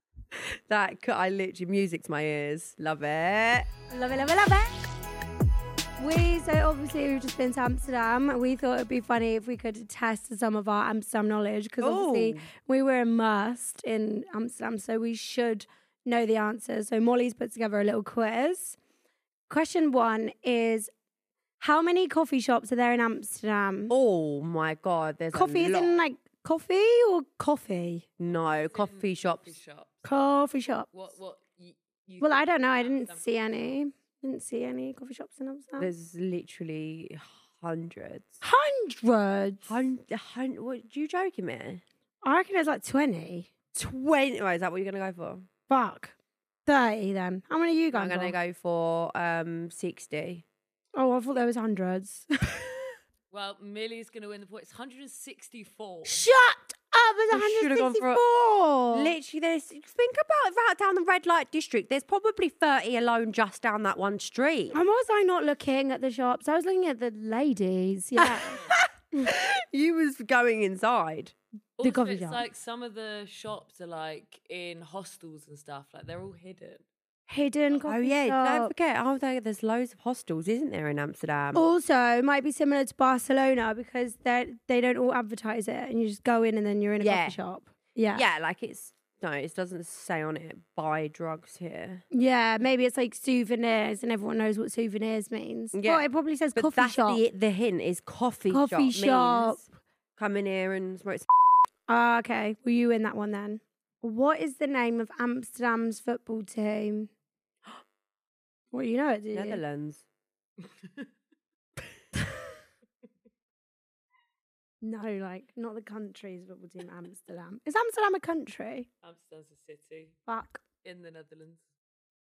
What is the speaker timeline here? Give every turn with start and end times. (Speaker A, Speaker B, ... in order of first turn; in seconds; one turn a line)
Speaker A: 0.3-3.7
Speaker B: 3.9-4.9
Speaker B: 6.0-18.8
Speaker A: 11.8-12.5
Speaker B: 19.5-20.9
Speaker B: 21.6-23.9
Speaker A: 23.9-26.0
Speaker B: 25.3-28.1
Speaker A: 28.2-29.5
Speaker C: 28.3-30.1
Speaker B: 30.0-30.9
Speaker C: 30.9-33.2
Speaker B: 32.2-35.9
Speaker A: 35.8-38.4
Speaker B: 38.4-39.7
Speaker A: 39.6-41.8
Speaker B: 42.2-43.5
Speaker A: 43.7-45.5
Speaker B: 45.7-46.1
Speaker B: 46.7-48.4
Speaker A: 47.9-50.4
Speaker B: 51.0-52.9
Speaker C: 53.3-56.3
Speaker B: 56.0-59.1
Speaker A: 57.3-58.2
Speaker A: 58.9-64.8
Speaker B: 64.7-68.6
Speaker A: 68.2-71.3
Speaker C: 71.8-76.8
Speaker B: 71.8-72.4
Speaker B: 77.3-78.7
Speaker A: 77.8-81.6
Speaker B: 81.5-88.2
Speaker A: 87.0-87.4
Speaker A: 88.1-92.0
Speaker B: 92.1-97.2
Speaker A: 95.7-99.7
Speaker B: 98.5-99.7
Speaker A: 100.2-101.3
Speaker B: 101.9-107.1
Speaker B: 108.7-109.6
Speaker A: 109.3-110.0
Speaker B: 114.8-118.9
Speaker C: 119.0-120.2
Speaker B: 120.3-120.6
Speaker C: 120.8-121.7